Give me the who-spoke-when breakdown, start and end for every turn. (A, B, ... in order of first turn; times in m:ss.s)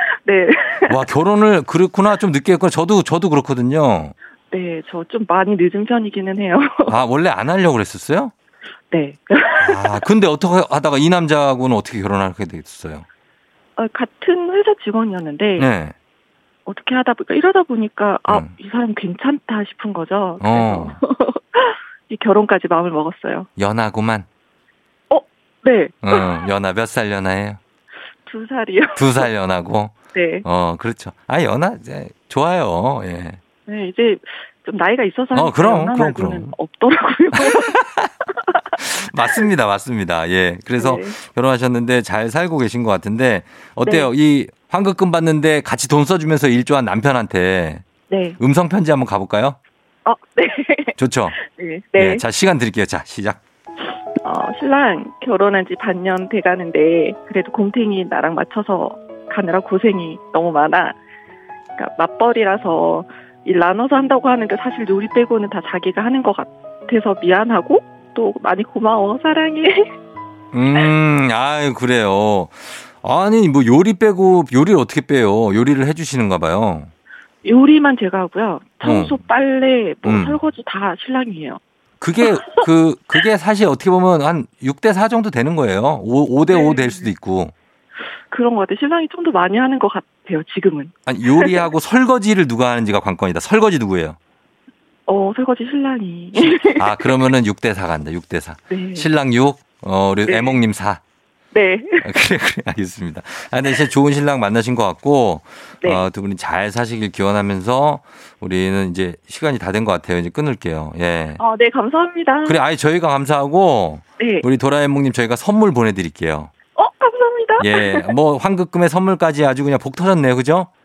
0:00.2-0:01.0 A
0:00.9-0:04.1 B
0:04.5-0:07.0 A
0:06.9-0:08.3 B
0:08.9-0:10.0 A
0:09.6-0:13.1 B
0:13.8-0:15.7 A
0:15.6-0:16.0 B
0:16.7-0:23.5 A
0:20.4-0:21.0 B
0:23.6-0:24.3 B
0:25.1-0:26.4 A
0:26.0-0:27.6 B
0:28.3-0:29.3 A
0:29.0-0:33.4 B
0:30.2-0:30.4 A
0:33.7-0:37.8 A
0:35.3-0:36.6 B
0:37.3-0:38.1 B
0:38.8-0:47.8 B
0:40.8-0:41.1 A
0:48.1-0:48.4 A
0:48.4-0:49.6 B
0:50.1-0:52.2 A
0:51.0-0:51.4 B
0:52.0-0:53.4 B
0:54.2-1:01.0 A
1:01.8-1:09.9 A
1:10.5-1:16.9 B
1:17.4-1:21.6 A
1:18.8-1:19.2 B
1:20.0-1:20.4 B
1:22.0-1:27.5 B
1:22.2-1:22.7 A
1:26.5-1:27.1 A
1:28.3-1:31.6 A
1:31.1-1:34.2 B
1:35.1-1:37.0 A
1:36.4-1:41.0 B
1:38.7-1:39.1 A
1:40.3-1:40.6 A
1:41.5-1:42.2 A
1:42.0-1:51.4 B
1:51.4-1:52.6 A
1:52.4-1:56.5 B
1:54.2-1:54.4 A
1:56.8-1:58.1 A
1:57.6-2:00.7 B